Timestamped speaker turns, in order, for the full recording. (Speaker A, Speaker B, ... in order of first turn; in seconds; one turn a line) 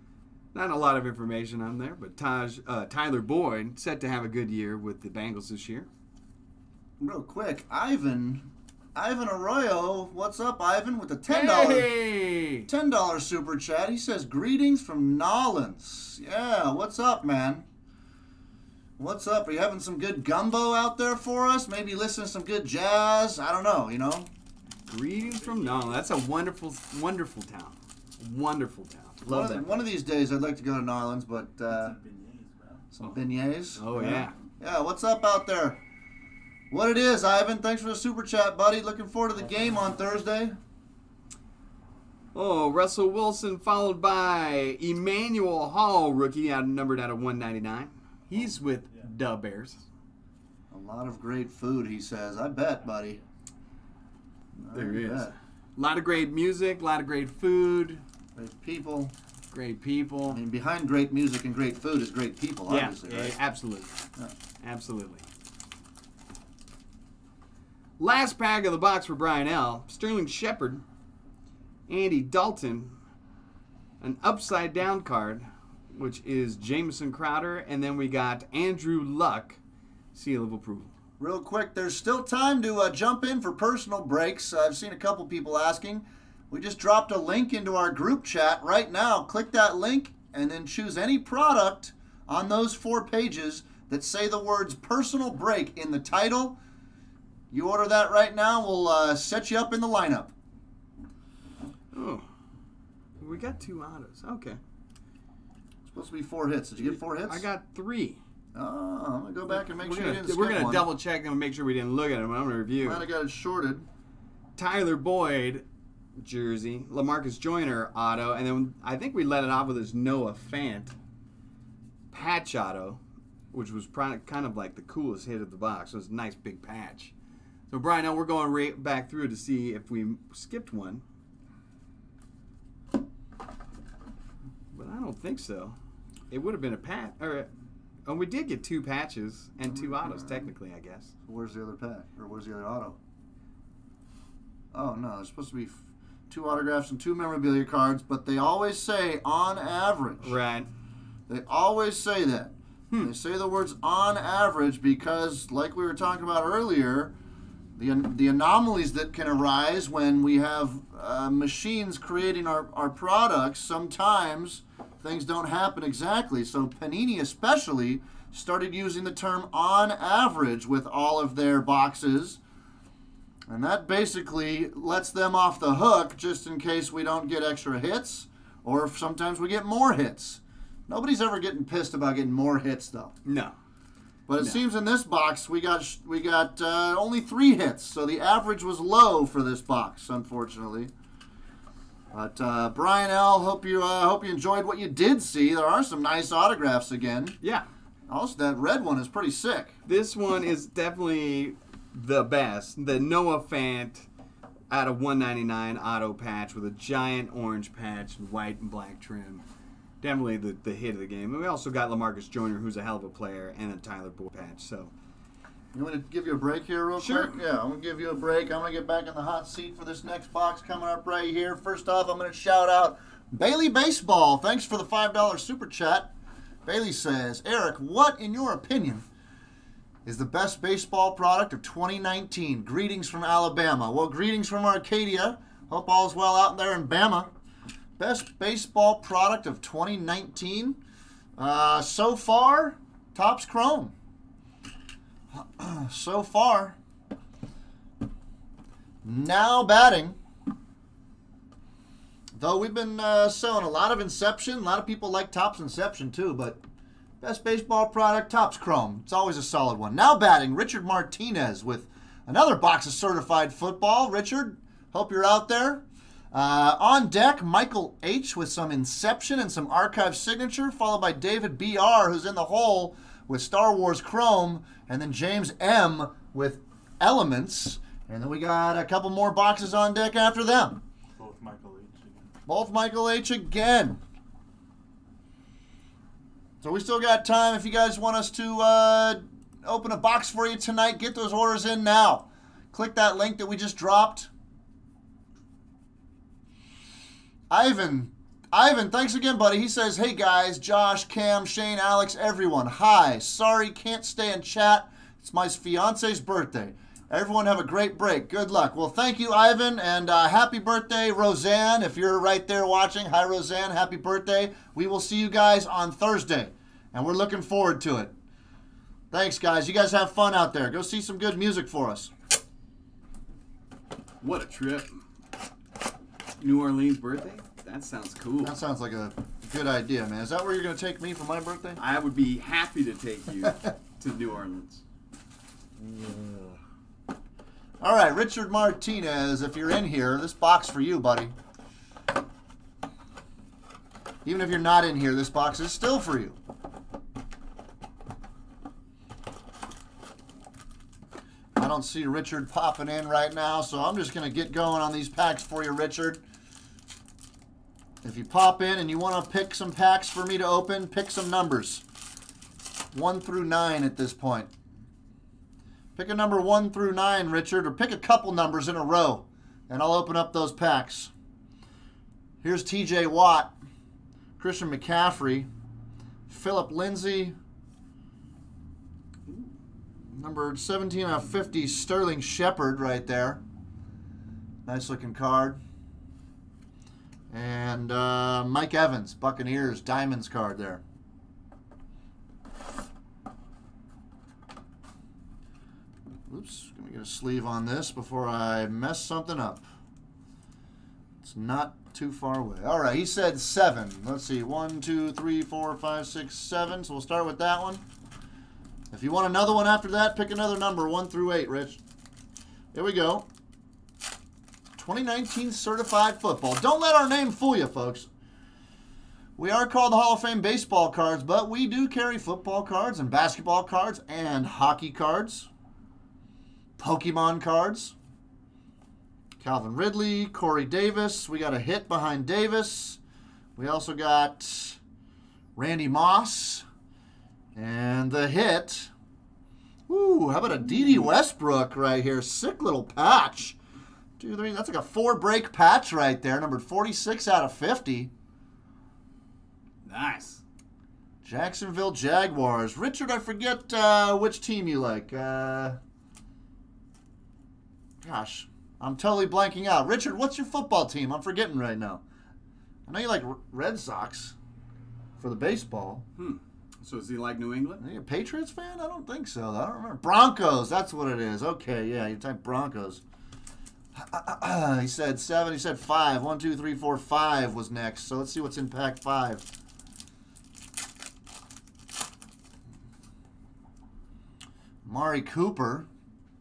Speaker A: 0.5-5.9
Speaker B: 7.0-11.9
Speaker A: 11.3-12.7
Speaker B: 12.7-17.6
Speaker B: 19.0-24.3
Speaker A: 24.9-29.8
Speaker C: 25.4-26.0
Speaker B: 29.2-32.0
Speaker C: 31.7-32.8
Speaker B: 32.9-35.8
Speaker A: 33.8-34.3
Speaker B: 36.7-40.6
Speaker A: 42.3-49.8
Speaker B: 50.7-53.2
Speaker B: 54.6-55.3
Speaker A: 54.7-58.0
Speaker B: 58.4-59.1
Speaker A: 59.5-60.4
Speaker B: 60.3-63.4
Speaker A: 62.7-64.0
Speaker A: 64.6-65.3
Speaker A: 68.0-70.8
Speaker A: 71.9-72.9
Speaker A: 74.0-79.6
Speaker A: 80.1-80.9
Speaker B: 81.2-96.6
Speaker B: 97.5-100.3
Speaker A: 101.9-102.2
Speaker A: 103.2-104.6
Speaker B: 105.9-107.5
Speaker A: 106.8-108.2
Speaker B: 108.5-110.9
Speaker A: 109.5-113.0
Speaker B: 112.8-113.8
Speaker A: 114.5-115.6
Speaker A: 116.2-120.9
Speaker A: 122.1-123.0
Speaker A: 123.5-127.1
Speaker A: 127.7-131.0
Speaker A: 134.7-135.8
Speaker A: 136.3-137.5
Speaker A: 138.1-141.1
Speaker B: 139.7-140.4
Speaker B: 141.3-143.0
Speaker B: 144.7-150.4
Speaker A: 150.2-150.7
Speaker B: 151.3-157.1
Speaker B: 157.8-172.4
Speaker B: 173.5-183.2
Speaker A: 183.2-183.5
Speaker B: 184.3-190.9
Speaker B: 192.1-197.4
Speaker A: 197.4-197.7
Speaker B: 198.1-199.8
Speaker A: 199.8-204.1
Speaker A: 204.7-209.4
Speaker A: 210.0-214.9
Speaker B: 215.7-226.1
Speaker A: 217.0-217.4
Speaker B: 226.6-229.0
Speaker B: 230.1-237.3
Speaker B: 238.0-240.8
Speaker B: 241.4-243.9
Speaker B: 245.3-246.8
Speaker B: 249.0-250.2
Speaker B: 252.4-256.6
Speaker B: 257.2-280.8
Speaker C: 281.2-282.3
Speaker B: 282.4-284.0
Speaker B: 286.6-294.3
Speaker B: 297.5-318.1
Speaker B: 319.1-322.1
Speaker A: 324.2-325.0
Speaker A: 326.4-328.6
Speaker B: 328.4-331.8
Speaker A: 331.8-334.8
Speaker B: 335.8-336.6
Speaker B: 337.8-341.3
Speaker B: 344.2-346.4
Speaker B: 351.5-356.2
Speaker B: 358.0-361.8
Speaker B: 362.9-364.5
Speaker B: 365.9-371.1
Speaker B: 372.4-373.5
Speaker B: 374.4-375.5
Speaker B: 376.3-377.4
Speaker A: 379.3-379.5
Speaker B: 380.1-383.4
Speaker B: 384.6-385.6
Speaker B: 387.3-390.8
Speaker B: 396.3-399.6
Speaker B: 401.2-407.8
Speaker B: 408.9-411.8
Speaker B: 412.7-413.2
Speaker B: 414.8-418.1
Speaker B: 419.4-425.5
Speaker B: 426.8-427.9
Speaker B: 429.4-433.0
Speaker B: 433.6-434.8
Speaker B: 435.6-436.6
Speaker B: 437.5-438.9
Speaker B: 439.9-443.6
Speaker B: 444.2-448.1
Speaker A: 449.8-450.4
Speaker B: 451.2-455.8
Speaker B: 458.0-462.0
Speaker B: 462.9-464.3
Speaker B: 465.2-466.0
Speaker A: 466.2-467.8
Speaker B: 467.8-473.0
Speaker B: 473.9-479.4
Speaker B: 484.8-485.9